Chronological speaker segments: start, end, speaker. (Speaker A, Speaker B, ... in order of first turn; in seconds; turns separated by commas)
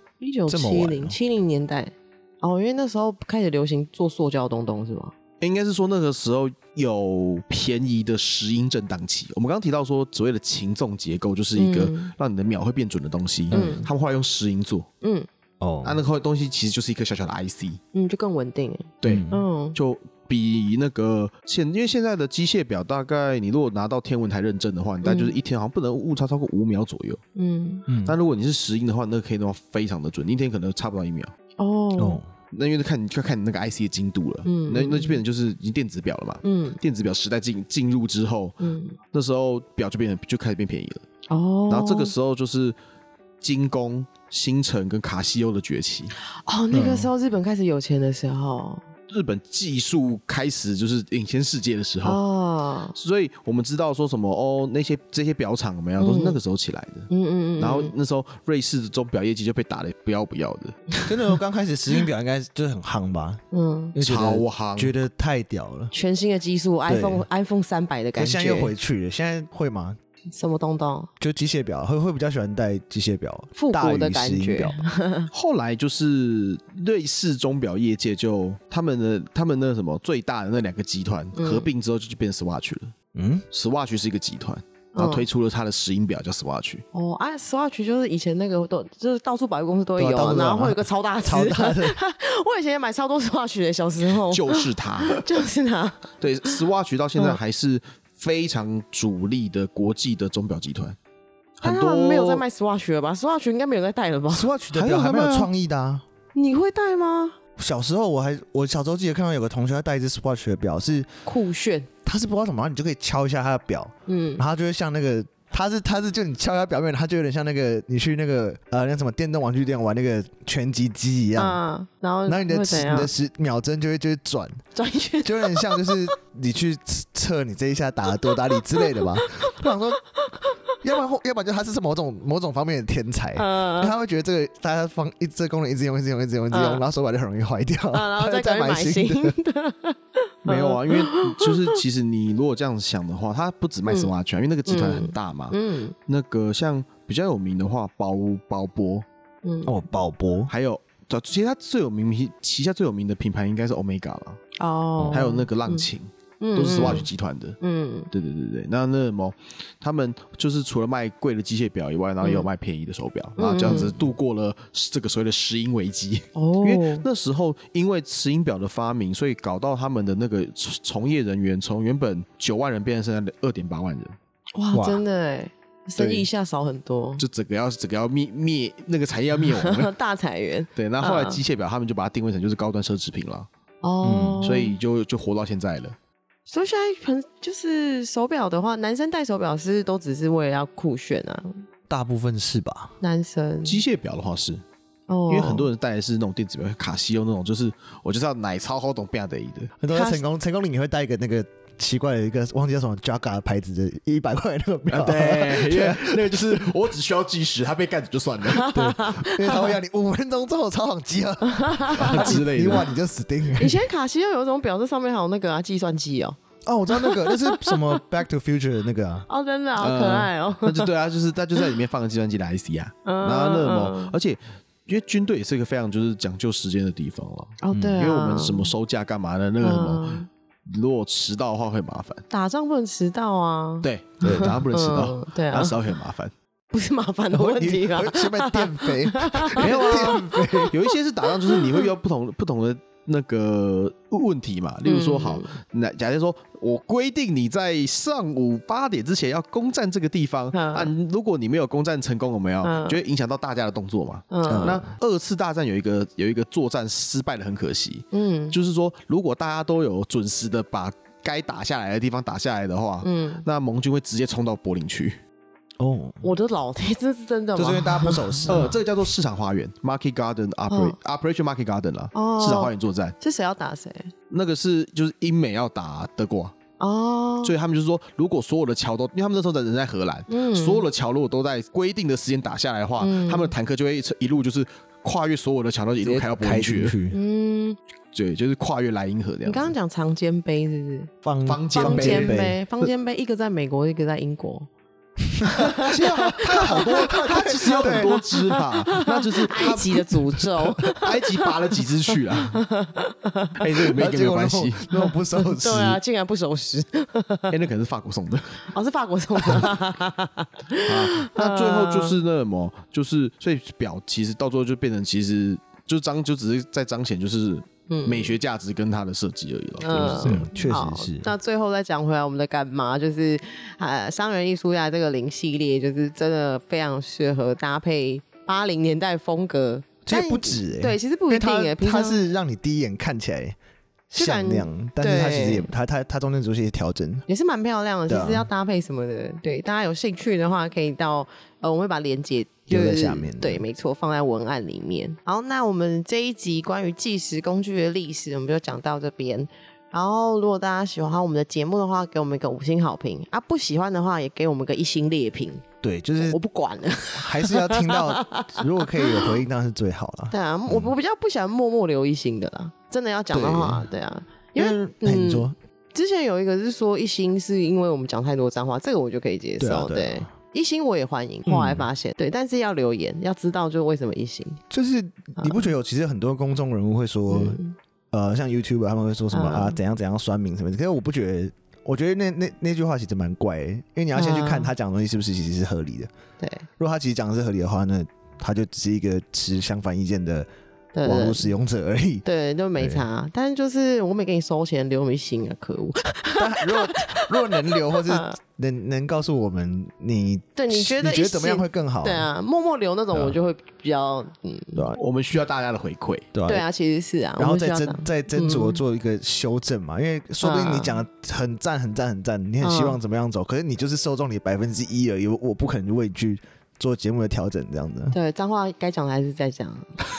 Speaker A: 0.2-5.2, Speaker B: 0.5-1.2, Speaker C: 5.4-14.9, Speaker A: 11.6-12.1, Speaker A: 13.5-13.9, Speaker B: 13.5-13.9, Speaker A: 15.0-15.3, Speaker B: 15.6-16.0, Speaker C: 15.8-17.8, Speaker A: 17.9-19.8, Speaker C: 19.0-27.2, Speaker B: 19.0-19.4, Speaker A: 25.0-25.4, Speaker A: 27.4-27.9, Speaker B: 27.9-28.2, Speaker C: 28.0-31.3, Speaker A: 31.6-32.2, Speaker B: 32.0-32.3, Speaker C: 32.5-38.6, Speaker A: 34.5-35.2, Speaker A: 36.4-36.8, Speaker A: 38.6-39.0, Speaker C: 39.1-41.1, Speaker A: 41.3-42.1, Speaker C: 41.7-42.8, Speaker C: 43.4-46.1, Speaker A: 46.5-48.8, Speaker B: 46.7-47.1, Speaker C: 49.1-52.2, Speaker A: 52.0-53.0, Speaker C: 53.0-60.9, Speaker A: 56.0-56.4, Speaker A: 57.1-57.9, Speaker B: 61.1-63.4, Speaker A: 63.5-64.0, Speaker B: 64.0-65.9, Speaker C: 64.0-65.0, Speaker A: 65.9-68.7, Speaker B: 66.9-67.2, Speaker B: 68.2-70.0, Speaker A: 70.3-71.1, Speaker B: 71.2-74.8, Speaker A: 73.6-75.3, Speaker C: 75.3-82.9, Speaker A: 81.3-81.7, Speaker B: 83.1-83.5, Speaker C: 83.5-86.8, Speaker A: 85.0-85.3, Speaker A: 86.9-96.6, Speaker B: 90.0-92.0, Speaker C: 94.3-95.3, Speaker C: 96.2-101.0, Speaker C: 101.6-102.4, Speaker A: 101.6-104.5, Speaker B: 104.3-106.0, Speaker C: 104.7-105.5, Speaker A: 106.3-107.4, Speaker B: 107.6-111.2, Speaker A: 111.2-111.9, Speaker B: 112.0-121.6, Speaker A: 114.1-114.4, Speaker A: 121.4-123.1, Speaker B: 122.3-124.6, Speaker A: 124.7-126.1, Speaker B: 125.2-130.0, Speaker A: 128.3-129.7, Speaker A: 130.2-130.8, Speaker B: 130.8-139.3, Speaker A: 133.4-133.9, Speaker A: 136.5-136.8, Speaker A: 137.9-141.8, Speaker C: 140.4-149.1, Speaker A: 144.7-145.9, Speaker A: 149.4-149.7, Speaker B: 149.7-150.5, Speaker C: 150.5-154.4, Speaker A: 154.6-155.9, Speaker C: 155.1-157.6, Speaker A: 156.4-157.1, Speaker A: 157.6-158.1, Speaker C: 158.1-174.2, Speaker A: 162.2-162.5, Speaker A: 163.4-164.0, Speaker A: 166.3-167.1, Speaker A: 174.6-177.2, Speaker B: 174.7-175.0, Speaker C: 176.0-176.3, Speaker C: 177.2-179.9, Speaker A: 179.5-181.4, Speaker C: 180.8-183.5, Speaker A: 183.8-184.8, Speaker B: 184.0-184.4, Speaker C: 184.4-186.0, Speaker A: 186.5-191.6, Speaker B: 191.9-192.9, Speaker A: 193.0-193.8, Speaker C: 193.7-194.6, Speaker A: 195.1-195.7, Speaker C: 195.3-199.7, Speaker B: 199.8-206.7, Speaker A: 199.9-200.2, Speaker C: 204.9-208.9, Speaker A: 208.5-209.7, Speaker B: 208.8-213.8, Speaker A: 211.4-212.9, Speaker C: 211.9-212.9, Speaker A: 213.6-216.4, Speaker B: 216.7-219.3, Speaker A: 216.9-218.0, Speaker A: 219.3-220.9, Speaker C: 219.8-232.2, Speaker A: 223.1-224.2, Speaker A: 227.6-228.7, Speaker A: 229.6-230.3, Speaker A: 232.3-235.8, Speaker C: 233.8-236.3, Speaker B: 234.2-234.6, Speaker A: 236.7-241.9, Speaker B: 237.3-240.8, Speaker C: 239.6-265.2, Speaker A: 244.8-245.6, Speaker A: 250.5-250.9, Speaker A: 252.6-253.0, Speaker A: 254.3-254.8, Speaker B: 254.5-254.8, Speaker A: 258.1-258.6, Speaker A: 263.0-263.5, Speaker B: 265.8-266.2, Speaker A: 266.2-268.7, Speaker B: 267.6-268.8, Speaker C: 268.5-273.2, Speaker A: 270.7-271.0, Speaker A: 272.1-274.1, Speaker C: 274.3-276.6, Speaker A: 276.8-277.6, Speaker C: 277.4-286.9, Speaker A: 280.3-280.9, Speaker A: 283.0-283.5, Speaker B: 286.0-287.2, Speaker A: 287.1-287.8, Speaker C: 288.1-289.7, Speaker A: 289.4-291.1, Speaker B: 291.2-292.6, Speaker C: 291.5-292.8, Speaker A: 291.8-294.7, Speaker B: 295.3-298.1, Speaker A: 295.4-301.5, Speaker C: 295.8-302.6, Speaker A: 302.3-303.9, Speaker C: 303.6-304.9, Speaker B: 303.9-306.0, Speaker A: 304.9-307.6, Speaker C: 307.5-308.7, Speaker A: 308.7-312.2, Speaker C: 309.4-309.7, Speaker C: 310.9-320.4, Speaker A: 317.9-318.4, Speaker A: 319.8-332.2, Speaker B: 320.2-321.3, Speaker B: 330.1-333.6, Speaker B: 334.1-337.2, Speaker A: 334.2-335.7, Speaker A: 337.3-355.6, Speaker B: 338.1-338.5, Speaker B: 342.7-343.6, Speaker B: 355.8-356.4, Speaker A: 356.2-359.3, Speaker B: 357.2-360.9, Speaker A: 360.3-374.6, Speaker B: 363.3-363.9, Speaker B: 364.6-365.6, Speaker B: 369.6-370.3, Speaker B: 371.5-371.9, Speaker B: 374.7-377.6, Speaker A: 375.4-375.7, Speaker A: 377.3-377.8, Speaker B: 378.1-386.1, Speaker A: 379.3-379.8, Speaker A: 384.1-384.7, Speaker A: 386.4-386.7, Speaker B: 386.8-390.5, Speaker A: 390.9-391.5, Speaker B: 391.0-392.2, Speaker A: 392.2-397.3, Speaker B: 392.8-393.1, Speaker B: 396.4-402.3, Speaker A: 397.9-398.4, Speaker A: 400.6-404.9, Speaker C: 405.0-406.3, Speaker B: 406.3-406.6, Speaker A: 406.5-408.8, Speaker B: 407.4-418.2, Speaker A: 410.4-411.0, Speaker A: 412.6-413.0, Speaker A: 418.1-420.0